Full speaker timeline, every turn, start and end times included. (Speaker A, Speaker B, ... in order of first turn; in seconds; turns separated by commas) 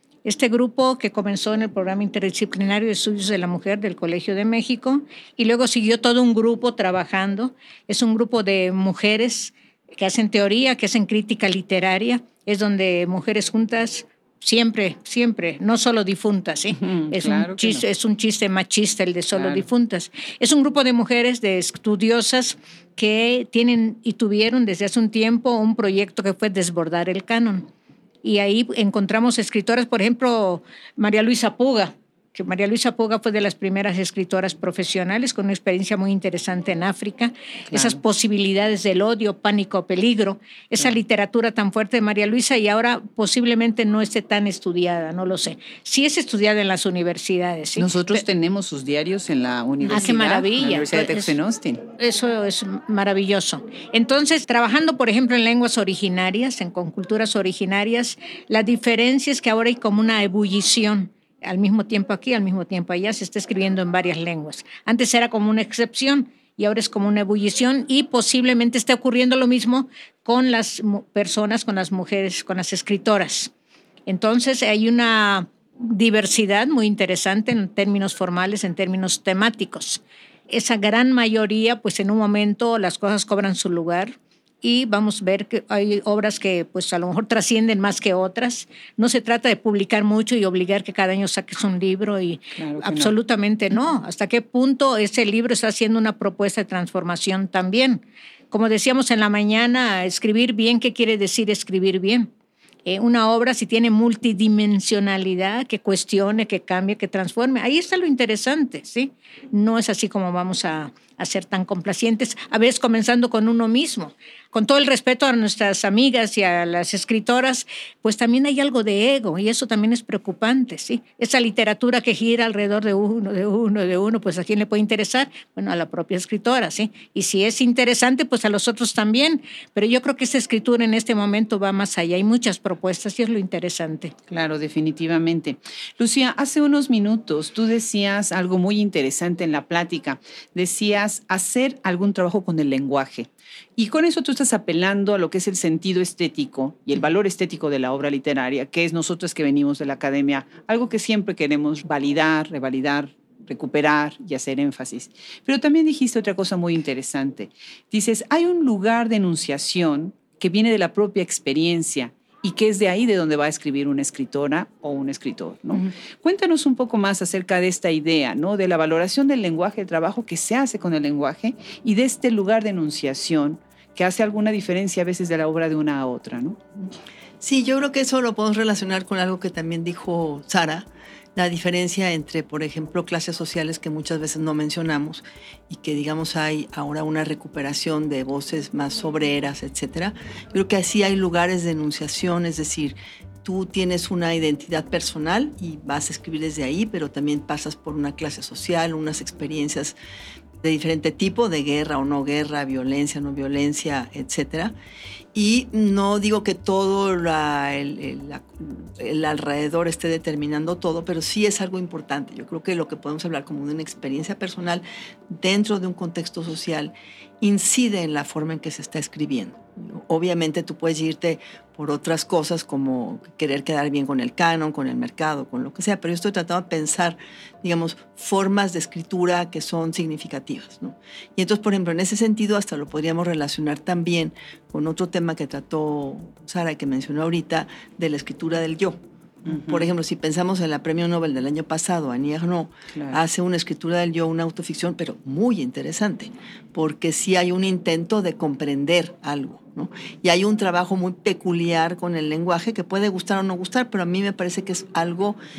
Speaker A: 0.2-27.7, Speaker B: 16.8-17.8, Speaker B: 19.3-19.6, Speaker A: 28.2-48.2, Speaker B: 37.7-38.0, Speaker B: 47.8-51.8, Speaker A: 49.8-51.3, Speaker A: 52.0-73.5, Speaker A: 74.1-102.3, Speaker B: 92.5-93.1, Speaker A: 102.8-134.1, Speaker B: 134.3-176.6, Speaker C: 177.4-199.9, Speaker C: 200.6-204.7, Speaker C: 205.3-255.4, Speaker B: 239.4-239.8